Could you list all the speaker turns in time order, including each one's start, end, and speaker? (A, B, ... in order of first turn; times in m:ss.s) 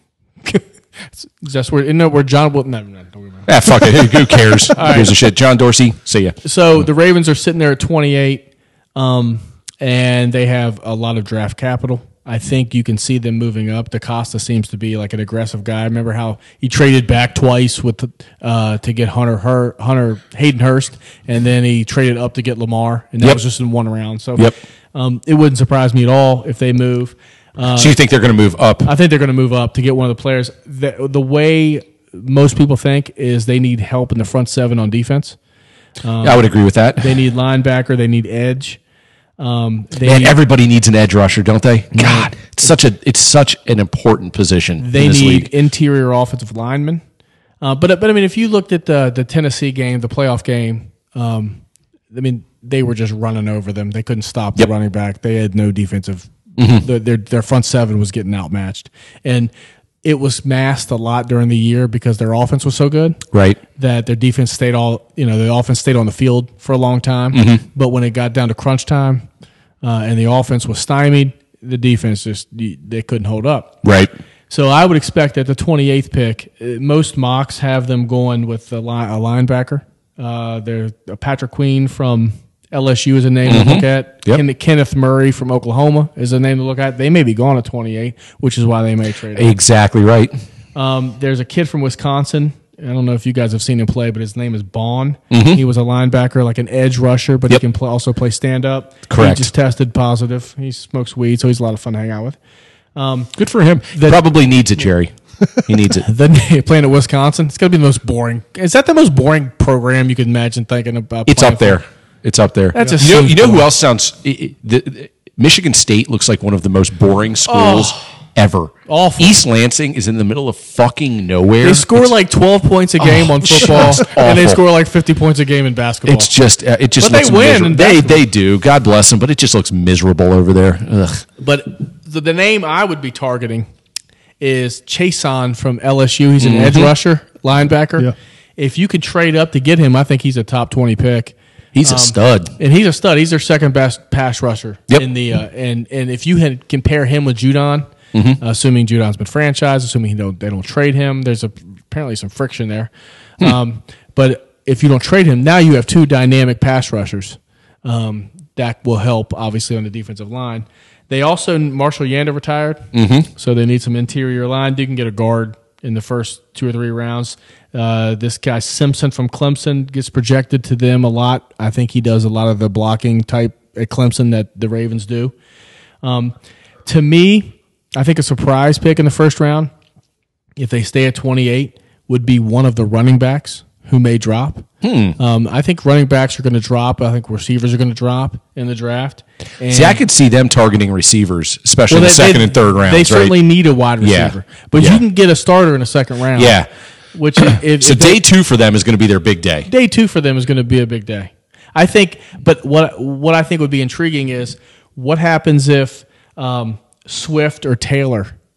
0:00.4-0:03.5 A
0:03.4-0:06.4 B
0:04.7-0:05.2 A
0:06.4-0:28.0 A
0:27.7-0:28.9 B
0:28.8-0:35.4 A
0:36.0-0:38.8 A
0:36.2-0:37.2 B
0:39.4-0:40.4 A
0:40.0-0:45.5 B
0:42.0-0:42.3 A
0:44.8-0:47.0 A
0:47.6-0:51.6 A
0:52.1-0:59.5 A
0:56.6-0:56.8 B
1:00.0-1:03.2 A
1:03.3-1:03.6 B
1:03.8-1:09.2 A
1:07.3-1:07.6 B
1:09.8-1:13.8 A
1:13.8-1:14.1 B
1:14.5-1:29.5 A
1:23.4-1:24.4 B
1:29.3-1:30.3 B
1:30.7-1:42.4 A
1:35.3-1:35.6 B
1:39.1-1:39.5 B
1:42.9-1:43.3 A
1:43.4-1:46.0 B
1:46.0-1:51.8 A
1:51.3-2:02.1 B
1:52.7-1:53.6 A
1:57.5-1:58.0 A
1:58.8-1:59.4 A
2:01.6-2:06.3 A
2:03.0-2:04.6 B
2:06.0-2:11.2 B
2:07.0-2:08.2 A
2:11.4-2:13.7 A
2:14.4-2:27.9 A
2:16.4-2:16.9 B
2:21.7-2:22.5 B
2:28.1-2:28.4 B
2:28.4-2:55.3 A
2:42.9-2:43.3 B
2:56.0-2:59.7 A
3:00.6-3:04.6 A
3:04.8-3:05.2 B
3:05.2-3:10.0 A
3:09.7-3:13.4 B
3:11.9-3:16.6 A
3:14.0-3:15.0 B
3:16.3-3:16.7 B
3:17.1-3:18.2 A
3:17.4-3:19.7 B
3:19.7-3:28.3 A